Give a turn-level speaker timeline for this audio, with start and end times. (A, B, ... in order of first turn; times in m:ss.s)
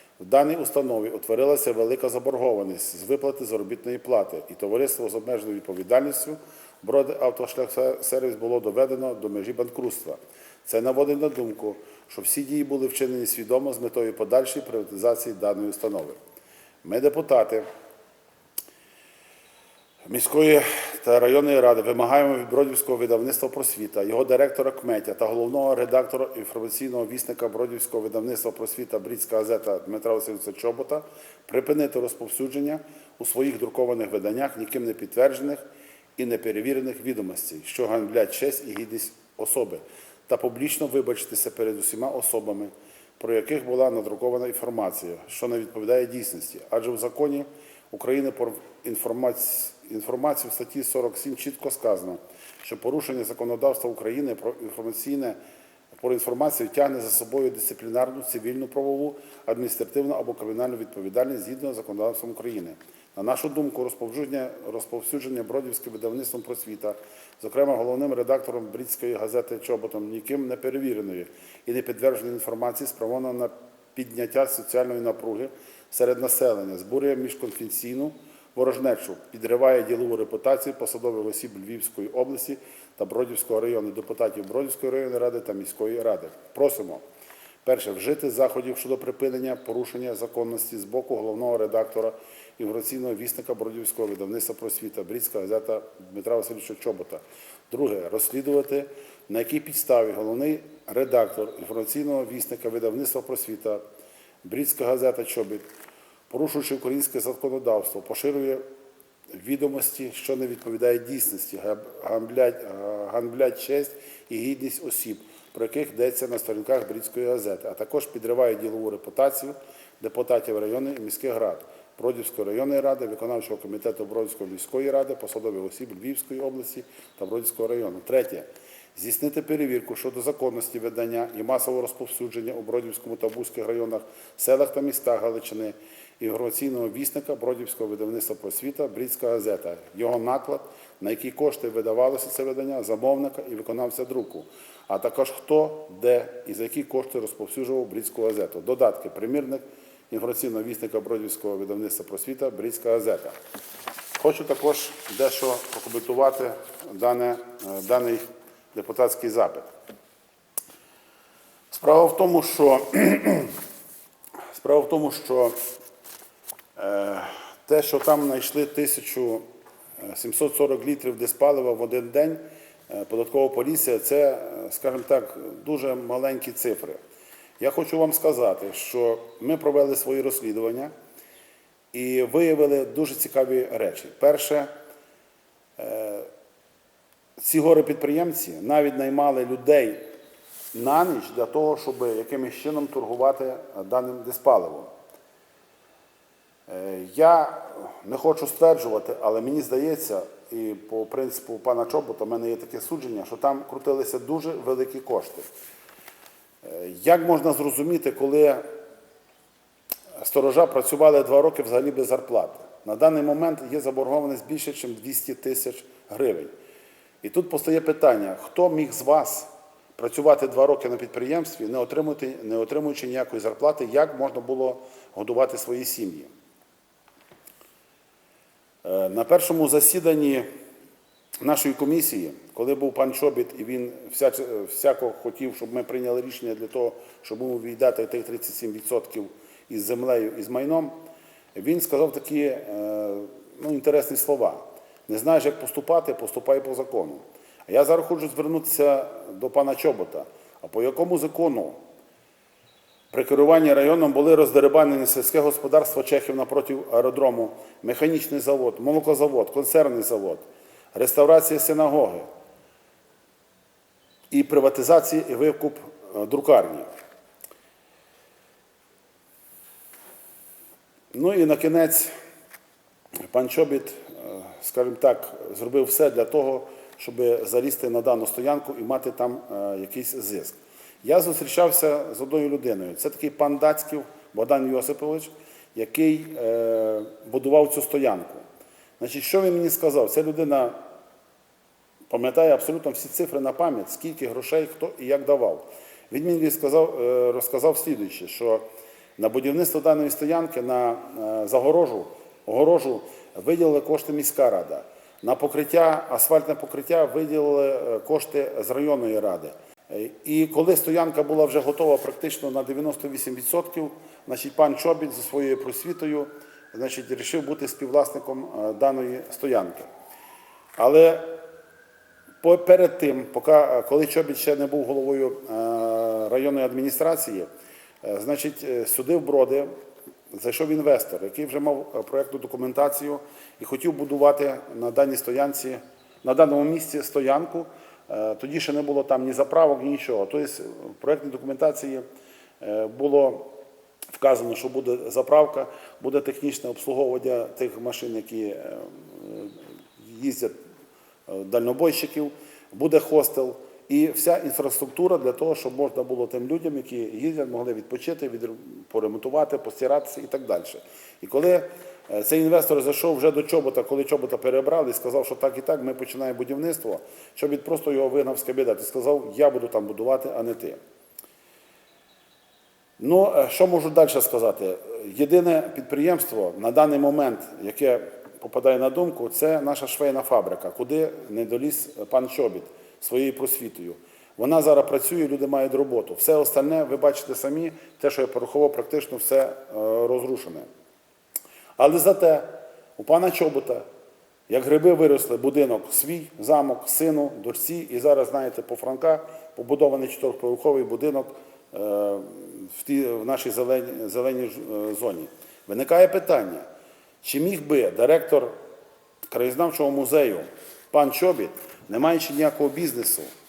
0:00.2-0:16.2 A
0:16.8-0:17.6 A
0:20.1-0:35.6 A
0:36.2-0:55.4 A
0:56.0-1:27.0 A
1:27.6-1:43.8 A
1:44.4-1:45.6 A
1:46.3-1:48.6 A
1:49.4-2:33.4 A
2:34.2-2:39.7 A
2:41.7-2:43.6 A
2:44.5-2:45.6 A
2:46.8-2:49.4 A
2:50.0-2:57.0 A
2:57.6-3:00.9 A
3:01.9-3:04.7 A
3:05.8-3:06.3 A
3:07.4-3:10.0 A
3:10.7-3:14.9 A
3:16.7-3:25.5 A
3:26.6-3:28.6 A
3:30.2-3:36.5 A
3:37.2-3:46.3 A
3:48.8-3:50.5 A
3:51.4-4:01.0 A
4:01.6-4:11.8 A
4:13.1-4:22.3 A
4:24.3-4:26.9 A
4:31.1-4:32.1 A
4:33.3-4:48.4 A
4:49.0-4:50.8 A
4:52.1-4:58.6 A
4:59.2-5:19.9 A
5:20.8-5:21.4 A
5:22.4-5:27.5 A
5:28.0-5:29.7 A
5:30.3-5:42.0 A
5:42.6-5:43.5 A
5:44.1-5:50.6 A
5:51.3-6:10.8 A
6:13.0-6:30.7 A
6:31.8-6:33.8 A
6:34.5-6:46.6 A
6:47.2-6:48.5 A
6:49.3-6:53.3 A